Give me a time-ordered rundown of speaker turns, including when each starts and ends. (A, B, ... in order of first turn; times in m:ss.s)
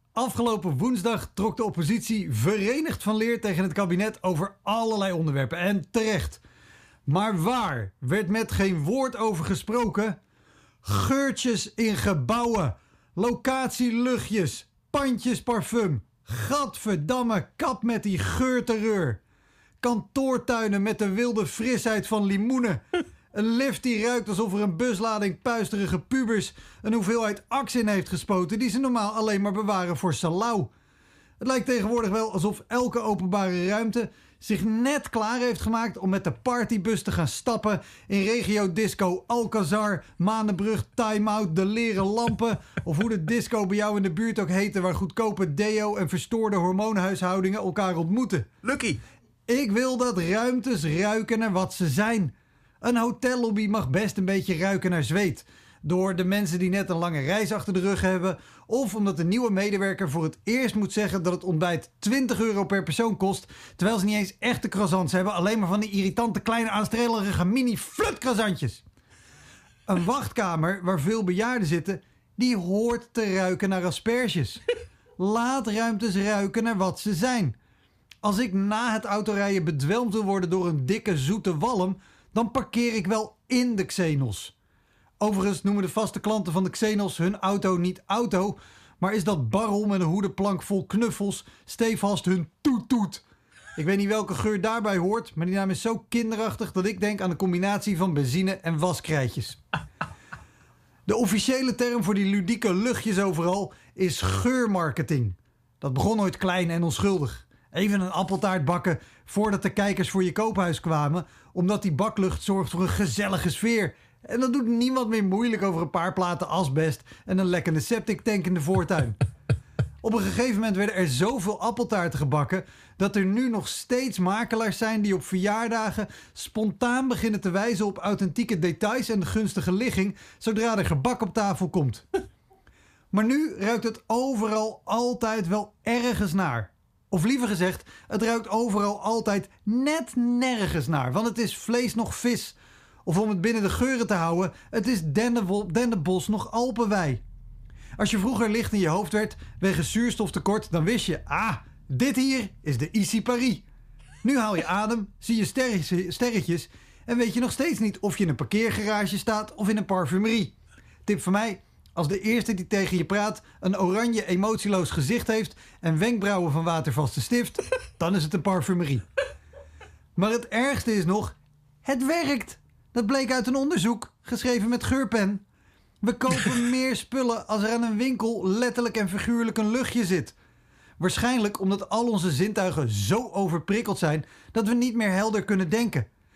0:00.2-0:06.4 A
0:07.0-0:10.2 A
0:10.8-0:19.2 A
0:19.8-0:22.8 A
0:23.3-0:30.7 A
0:31.4-0:48.5 A
0:49.5-1:08.8 A
1:09.9-1:14.6 A
1:15.2-1:17.6 A
1:18.2-1:24.5 A
1:25.2-1:33.2 A
1:33.8-1:39.6 A
1:41.1-1:59.2 A
2:00.0-2:12.0 A
2:13.1-2:27.2 A
2:28.0-2:33.6 A
2:34.2-2:40.5 A
2:41.0-2:49.0 A
2:50.2-2:55.4 A
2:56.0-3:00.3 A
3:01.0-3:06.1 A